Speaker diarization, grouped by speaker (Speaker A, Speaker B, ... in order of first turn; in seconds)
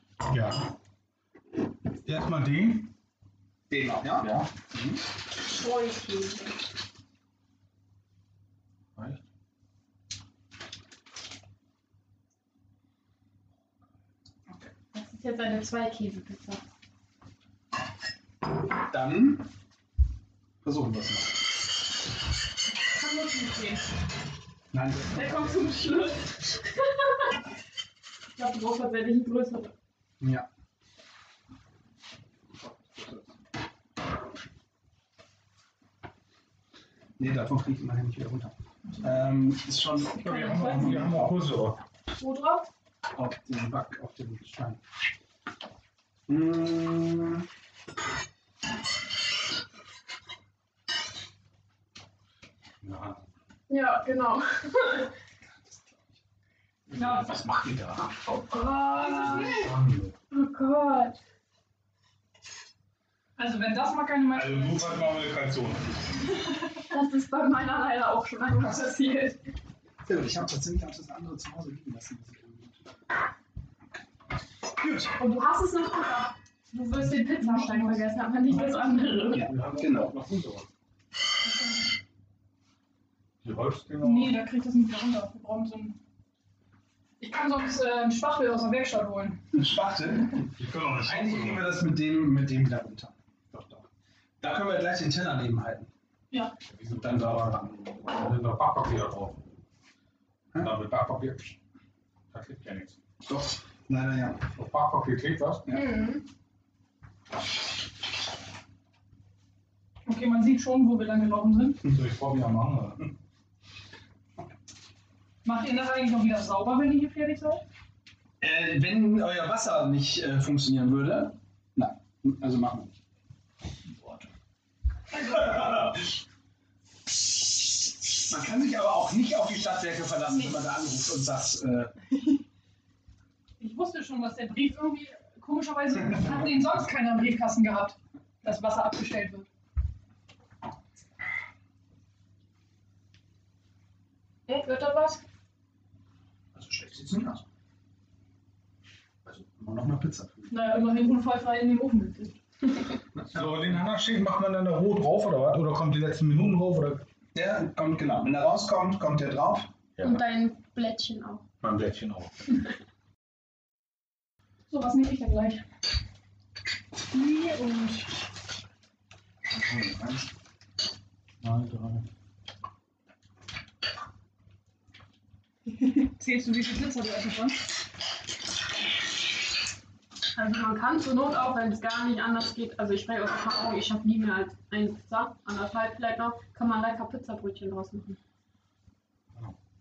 Speaker A: 0.3-0.6, 2.0-2.9, 8.9-9.2, 40.2-41.8, 52.8-53.2, 56.9-58.3, 59.3-60.1, 64.3-66.2, 79.3-80.7, 83.4-84.4, 90.5-91.7, 96.7-99.4, 100.6-101.5, 102.3-103.0, 104.5-105.8, 111.8-113.1, 153.3-157.1, 160.0-160.3, 161.6-162.6, 169.5-170.3, 171.4-172.1
Speaker B: 3.7-5.0, 18.9-19.4, 20.6-21.4, 24.7-25.7, 30.2-30.5, 32.6-33.3, 37.2-41.4, 43.1-44.8, 46.3-47.5, 55.4-56.2, 70.0-72.9, 74.7-75.1, 79.3-80.1, 89.5-93.8, 94.4-95.9, 96.9-98.0, 103.2-104.4, 118.4-123.0, 123.9-124.3, 125.2-126.0, 128.3-131.9, 146.5-147.4, 149.2-150.5, 153.1-153.8, 157.3-159.7
Speaker C: 5.5-6.5, 14.9-16.6, 22.9-23.8, 25.1-26.9, 28.3-29.7, 42.2-42.7, 53.7-55.1, 58.3-59.6, 60.3-61.2, 66.9-69.4, 75.2-79.5, 105.7-106.2, 144.5-145.2, 160.0-161.4, 180.3-188.2
Speaker D: 40.4-40.7, 57.0-57.2, 58.9-59.7, 63.4-65.1, 77.3-79.3, 81.4-81.8, 84.0-86.0, 87.2-89.5, 110.0-111.8, 115.4-117.6, 125.1-125.9, 133.6-139.5, 150.5-152.4, 164.7-165.6, 167.1-168.1, 175.8-177.6